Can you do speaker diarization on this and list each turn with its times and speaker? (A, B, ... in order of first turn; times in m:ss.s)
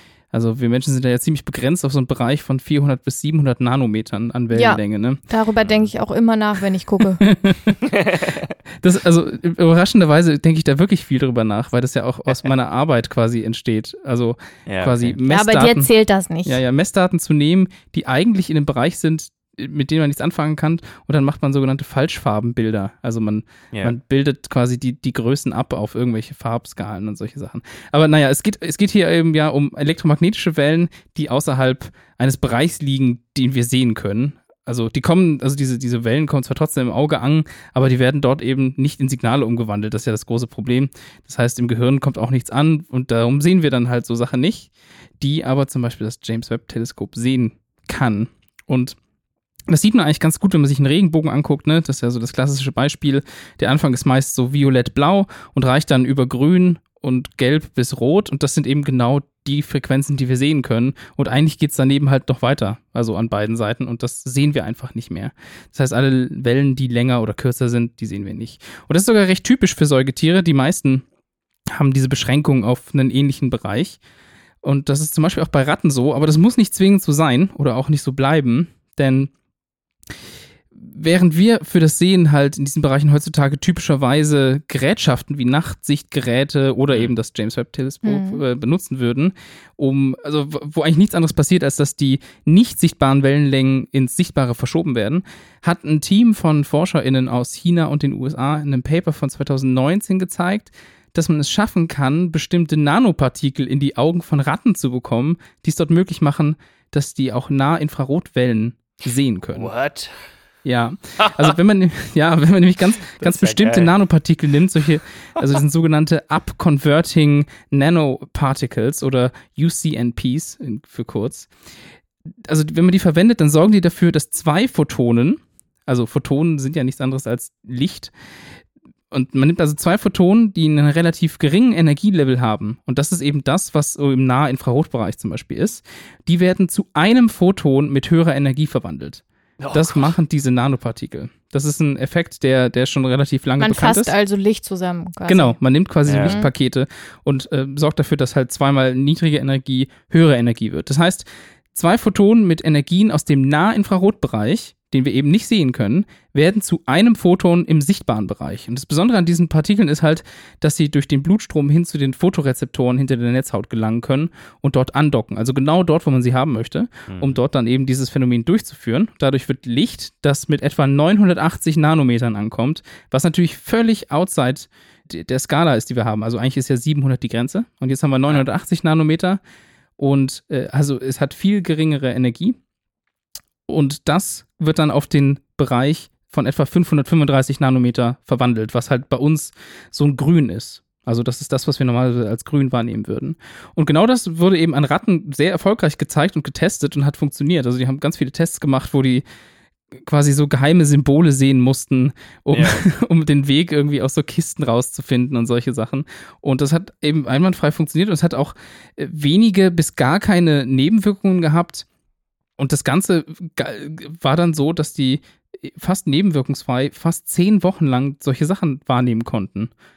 0:00.3-0:05.2 A
0:04.5-0:07.2 B
0:05.6-0:05.9 C
0:07.2-0:07.8 A
0:07.8-0:08.5 C
0:08.8-0:15.9 A
0:14.6-0:15.2 C
0:15.3-0:16.6 B
0:16.4-0:49.0 A
0:49.7-1:11.0 A
1:11.7-1:14.0 A
1:14.6-1:19.3 A
1:20.7-1:49.7 A
1:28.0-1:28.4 B
1:49.5-1:50.3 C
1:50.6-2:01.5 A
1:51.2-1:51.5 C
1:53.2-1:53.9 C
2:02.3-2:08.1 A
2:09.1-2:24.1 A
2:19.6-2:20.1 C
2:23.6-2:25.6 B
2:25.3-2:59.4 A
2:26.0-2:26.4 C
2:26.2-2:26.5 B
2:47.1-2:47.4 C
3:00.0-3:02.6 A
3:03.7-3:19.2 A
3:19.9-3:31.8 A
3:22.5-3:22.8 C
3:32.6-3:39.7 A